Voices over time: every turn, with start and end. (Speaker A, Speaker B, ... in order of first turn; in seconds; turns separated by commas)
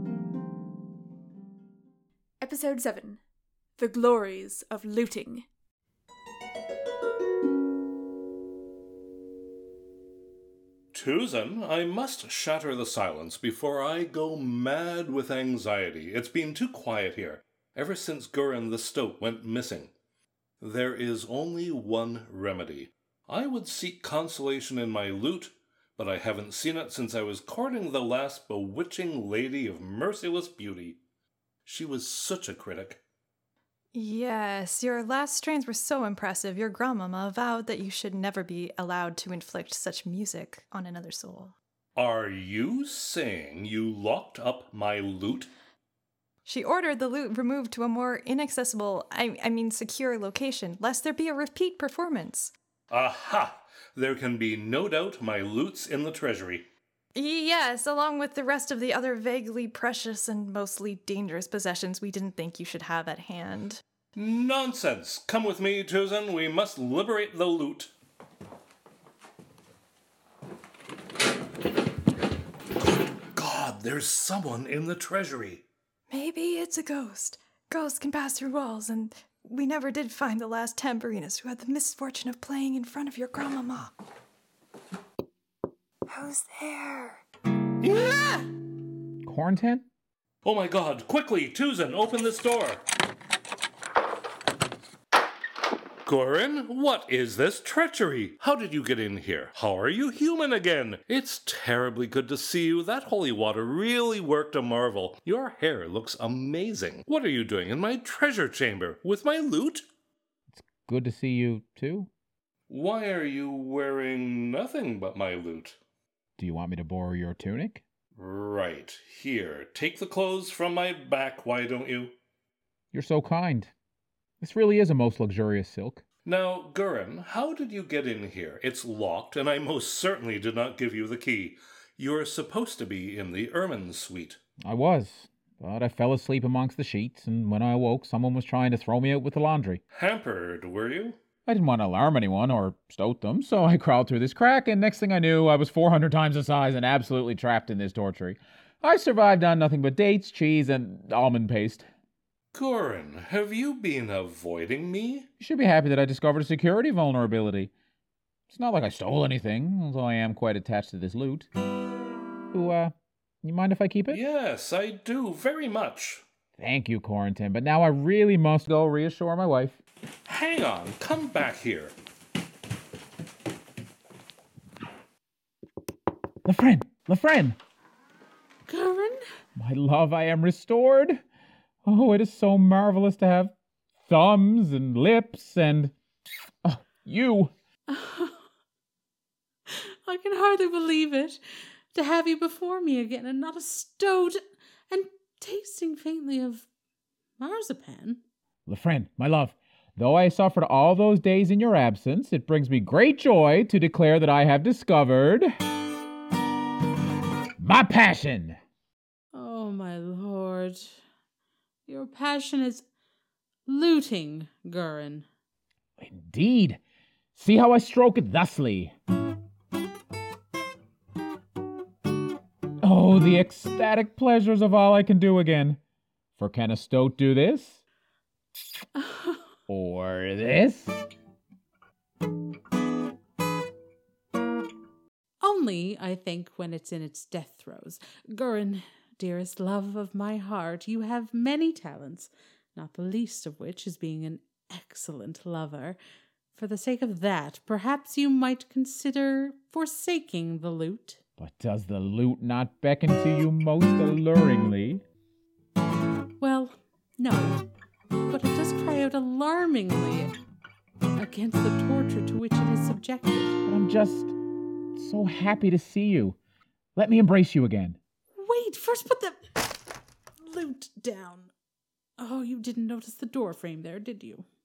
Speaker A: 2.4-3.2, Speaker A: 3.8-5.5, Speaker B: 10.9-19.9, Speaker B: 20.6-31.0, Speaker B: 31.7-33.0, Speaker C: 33.9-41.5, Speaker B: 42.0-45.5, Speaker C: 46.5-52.5, Speaker B: 52.9-56.7, Speaker C: 57.1-63.8, Speaker B: 64.2-67.9, Speaker B: 73.3-75.6, Speaker C: 76.1-83.9, Speaker C: 86.1-87.2, Speaker D: 89.2-89.9, Speaker B: 90.4-92.8, Speaker B: 96.1-109.8, Speaker D: 110.5-112.1, Speaker B: 112.7-115.8, Speaker D: 116.4-117.8, Speaker B: 118.2-122.2, Speaker D: 122.9-123.7, Speaker D: 124.4-126.0, Speaker B: 126.2-134.4, Speaker D: 134.6-139.8, Speaker B: 139.9-141.2, Speaker D: 141.5-151.9, Speaker B: 152.5-155.3, Speaker D: 155.4-157.7, Speaker D: 158.5-161.5, Speaker D: 162.5-164.2, Speaker B: 164.1-166.2, Speaker D: 166.6-169.8, Speaker B: 170.3-171.9, Speaker D: 176.4-177.6, Speaker E: 178.7-179.2, Speaker D: 179.6-181.2, Speaker D: 181.8-183.5, Speaker D: 184.1-185.9, Speaker D: 186.6-187.5, Speaker E: 187.9-188.4, Speaker E: 189.7-191.4, Speaker E: 191.9-196.7, Speaker E: 197.4-198.2, Speaker D: 198.7-205.5, Speaker D: 207.6-208.6, Speaker E: 209.3-211.0, Speaker E: 211.9-212.8, Speaker E: 213.7-215.3, Speaker D: 216.0-216.8, Speaker D: 217.3-218.9, Speaker D: 222.8-225.8, Speaker D: 226.4-227.8, Speaker E: 229.0-229.4, Speaker D: 229.7-231.1, Speaker E: 235.4-246.0, Speaker E: 246.6-251.2, Speaker D: 251.4-255.0, Speaker E: 256.4-257.6, Speaker E: 258.3-260.3, Speaker E: 261.2-263.6, Speaker D: 263.6-264.4, Speaker D: 264.9-266.4, Speaker D: 267.0-268.0, Speaker E: 268.4-269.4, Speaker E: 270.4-271.5, Speaker E: 272.2-274.5